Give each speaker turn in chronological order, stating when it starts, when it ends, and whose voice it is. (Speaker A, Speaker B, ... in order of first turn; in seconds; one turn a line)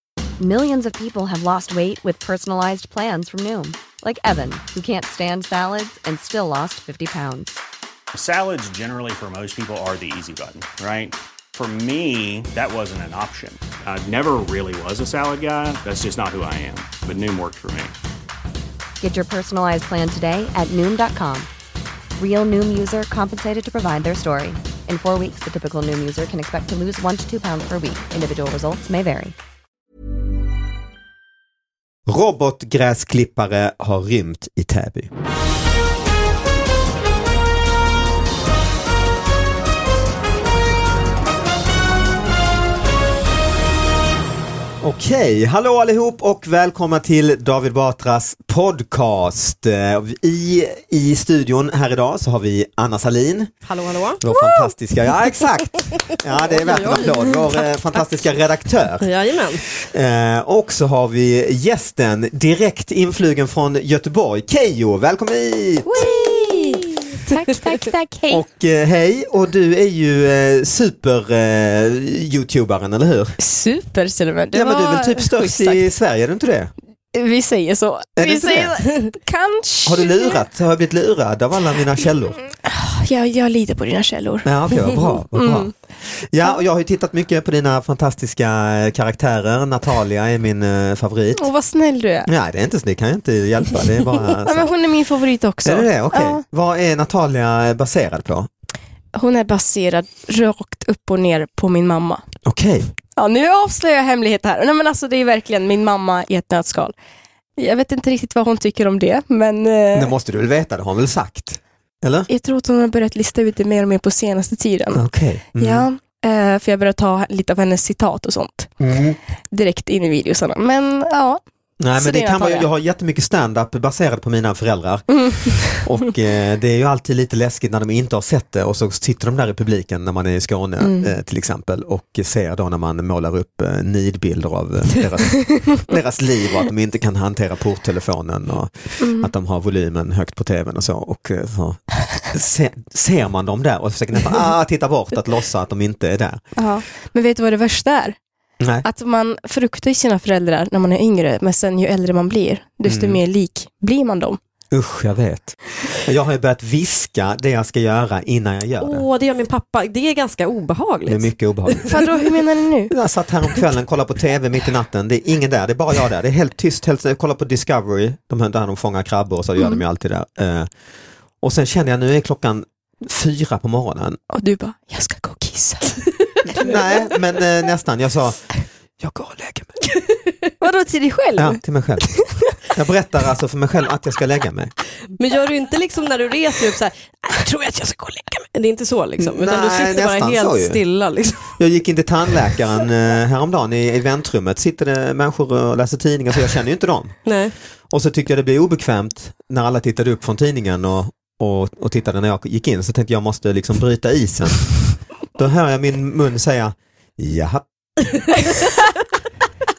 Speaker A: 0.4-7.6
Speaker B: 8.1-17.9
Speaker A: 19.0-21.5
Speaker A: 22.1-29.3
Speaker C: 32.1-35.1
Speaker C: 44.8-53.5
Speaker D: 53.6-54.2
Speaker C: 54.2-59.1
Speaker E: 54.3-54.7
Speaker D: 56.3-58.2
Speaker D: 59.0-59.7
Speaker C: 59.8-66.1
Speaker E: 65.9-68.4
Speaker D: 66.2-66.7
Speaker C: 68.3-73.4
Speaker E: 73.4-75.9
Speaker C: 74.5-76.7
Speaker E: 77.1-80.4
Speaker C: 78.2-78.8
Speaker C: 79.8-82.4
Speaker E: 82.6-84.5
Speaker C: 84.4-91.5
Speaker E: 85.3-85.7
Speaker E: 91.3-92.3
Speaker C: 92.2-94.7
Speaker E: 94.5-96.4
Speaker C: 95.6-98.5
Speaker E: 99.1-102.2
Speaker C: 102.4-102.9
Speaker E: 103.2-106.9
Speaker E: 107.6-110.1
Speaker C: 109.9-112.3
Speaker E: 112.3-118.7
Speaker C: 114.9-115.8
Speaker C: 118.8-119.2
Speaker E: 119.5-121.4
Speaker C: 121.8-146.4
Speaker E: 122.0-122.7
Speaker E: 130.8-131.1
Speaker E: 139.0-139.3
Speaker E: 146.5-148.2
Speaker C: 148.6-148.8
Speaker E: 148.8-154.4
Speaker C: 152.8-153.2
Speaker C: 154.7-159.1
Speaker D: 158.8-162.0
Speaker C: 161.1-162.0
Speaker E: 161.9-162.9
Speaker C: 162.9-170.7
Speaker C: 171.4-174.2
Speaker E: 174.3-176.0
Speaker C: 176.5-179.9
Speaker E: 180.6-182.5
Speaker C: 181.4-182.1
Speaker C: 182.7-184.7
Speaker D: 185.2-191.6
Speaker C: 189.2-190.8
Speaker C: 191.6-197.2
Speaker D: 197.2-197.5
Speaker C: 197.9-204.8
Speaker C: 205.3-207.6